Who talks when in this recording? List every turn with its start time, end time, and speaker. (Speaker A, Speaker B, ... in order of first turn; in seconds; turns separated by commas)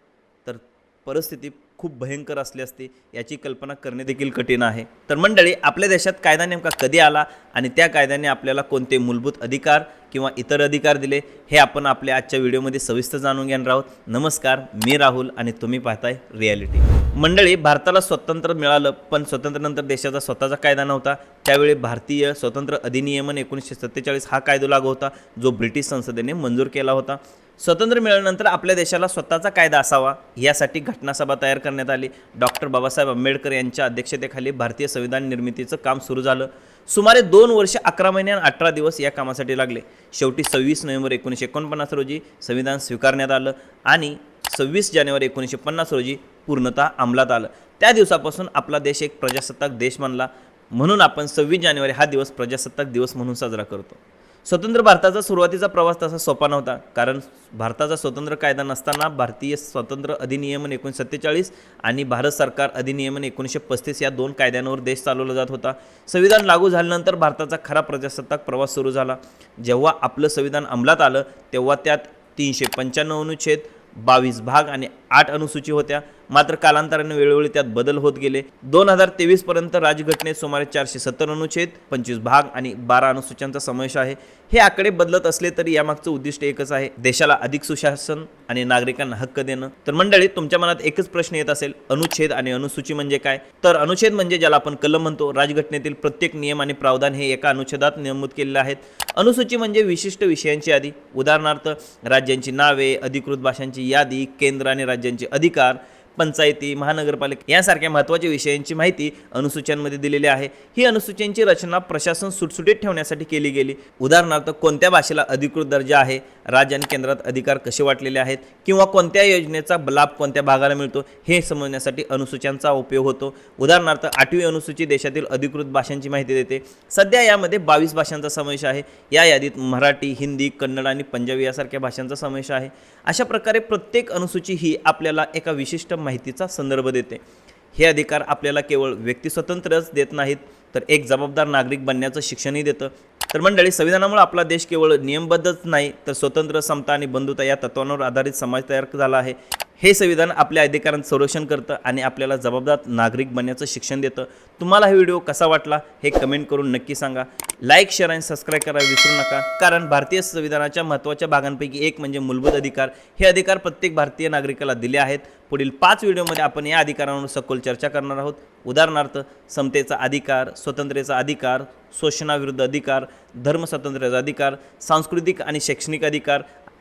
Speaker A: 0.4-137.2, Speaker A: 137.7-176.4